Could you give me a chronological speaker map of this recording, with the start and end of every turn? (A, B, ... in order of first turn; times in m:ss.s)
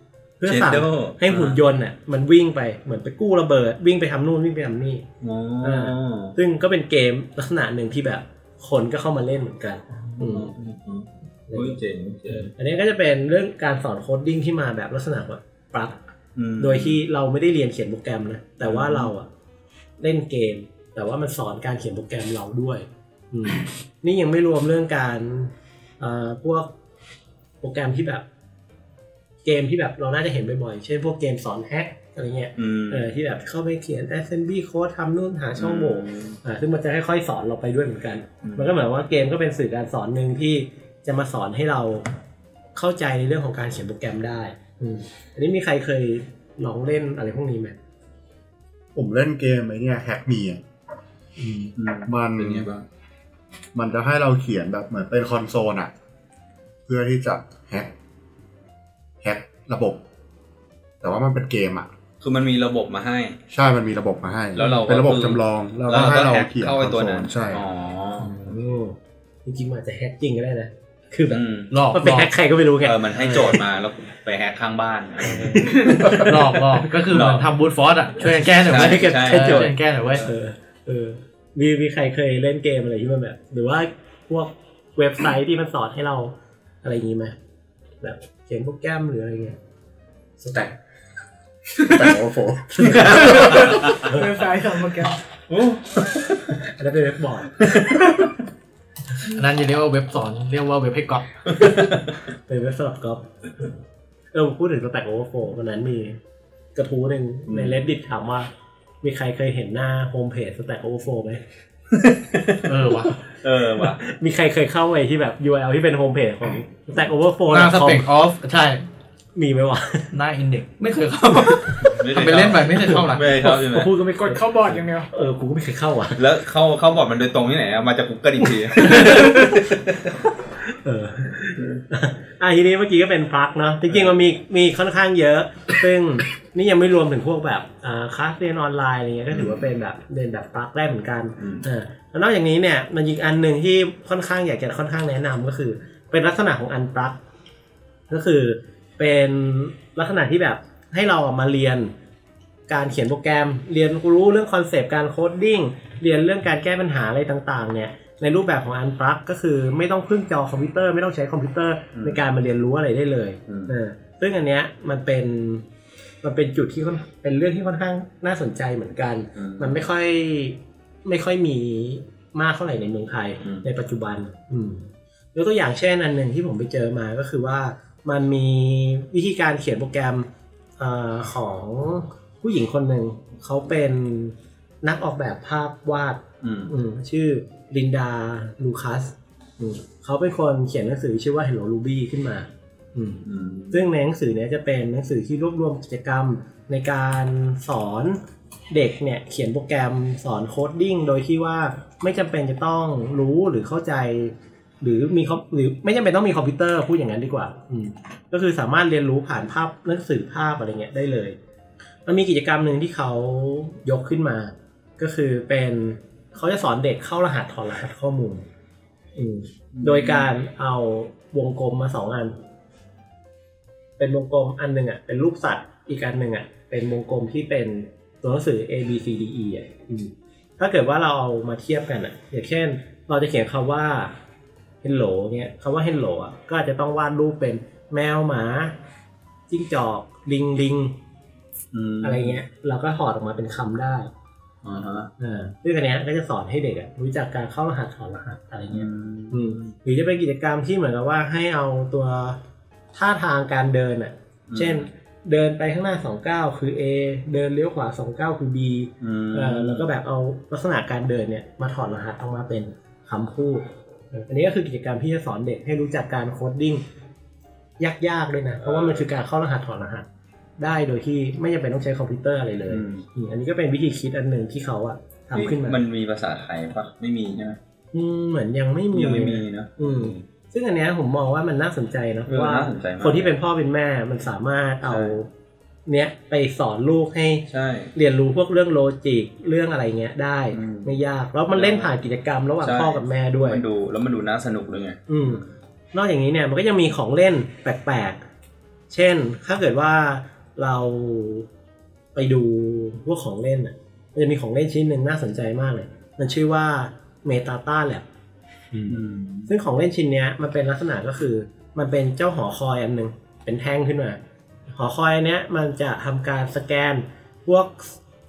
0:00.4-0:05.1 A
0:00.4-0:01.6 B
0:05.2-0:06.4 B
0:05.6-0:10.5 A
0:10.0-0:12.5 B
0:11.5-0:16.0 A
0:16.4-0:17.0 B
0:16.6-0:19.3 A
0:18.6-0:19.1 B
0:20.0-0:26.7 A
0:27.6-0:28.2 A
0:29.4-0:42.1 A
0:32.6-0:33.1 B
0:35.6-0:36.4 B
0:38.4-0:38.7 B
0:42.8-0:47.8 A
0:49.0-0:50.6 C
0:51.4-0:51.7 A
0:51.8-0:52.8 B
0:52.1-0:52.7 C
0:53.7-0:55.9 C
0:56.9-0:57.9 C
0:59.2-1:00.0 C
1:01.0-1:01.9 C
1:02.2-1:03.4 B
1:03.5-1:07.6 C
1:04.6-1:08.4 B
1:08.2-1:11.4 A
1:11.3-1:11.7 B
1:11.7-1:12.3 D
1:11.9-1:13.6 A
1:12.8-1:16.3 B
1:15.2-1:16.6 A
1:16.1-1:20.2 D
1:17.1-1:17.5 B
1:18.6-1:20.3 B
1:18.6-1:27.4 A
1:28.0-1:29.6 A
1:30.4-1:30.7 A
1:31.8-1:33.7 C
1:32.7-1:34.3 A
1:33.2-1:35.2 E
1:35.5-1:36.5 B
1:36.8-1:37.8 A
1:39.3-1:41.5 D
1:42.5-1:43.3 A
1:44.3-1:46.2 A
1:46.8-1:48.5 A
1:47.5-1:47.8 B
1:49.0-1:51.4 A
1:52.0-1:52.7 B
1:52.7-1:53.2 D
1:53.4-1:54.0 B
1:53.8-1:58.0 A
1:57.5-1:58.9 D
1:59.4-2:00.2 A
2:00.1-2:03.3 D
2:02.0-2:03.9 B
2:02.9-2:06.2 A
2:04.2-2:05.1 E
2:06.2-2:10.1 B
2:08.8-2:09.7 A
2:10.7-2:27.2 A
2:19.3-2:19.6 B
2:21.4-2:21.6 B
2:28.1-2:31.9 A
2:32.7-2:45.7 A
2:43.5-2:43.7 B
2:46.2-3:00.3 A
2:49.4-2:49.8 B
3:00.8-3:31.4 A
3:06.4-3:06.7 B
3:13.2-3:13.9 B
3:32.1-3:38.4 A
3:39.2-3:42.4 A
3:39.7-3:40.3 B
3:44.0-3:54.1 A
3:54.8-3:58.8 A
3:59.5-4:01.0 A
4:01.7-4:02.4 B
4:02.0-4:04.1 A
4:04.6-4:05.1 B
4:05.2-4:12.4 A
4:08.7-4:09.7 B
4:12.9-4:26.8 A
4:14.5-4:14.9 B
4:19.0-4:19.9 B
4:27.8-4:30.1 A
4:28.6-4:29.1 B
4:30.6-4:35.8 A
4:32.7-4:33.0 B
4:35.4-4:37.6 B
4:37.9-4:45.3 A
4:38.9-4:40.2 B
4:42.3-4:43.3 B
4:44.9-4:45.2 B
4:45.9-4:53.6 A
4:47.5-4:47.9 B
4:50.5-4:50.9 B
4:51.5-4:51.9 B
4:52.6-4:55.5 B
4:55.1-4:58.2 A
4:58.9-5:01.5 A
5:02.2-5:08.0 A
5:08.7-5:14.2 A
5:08.9-5:09.5 B
5:14.7-5:18.0 A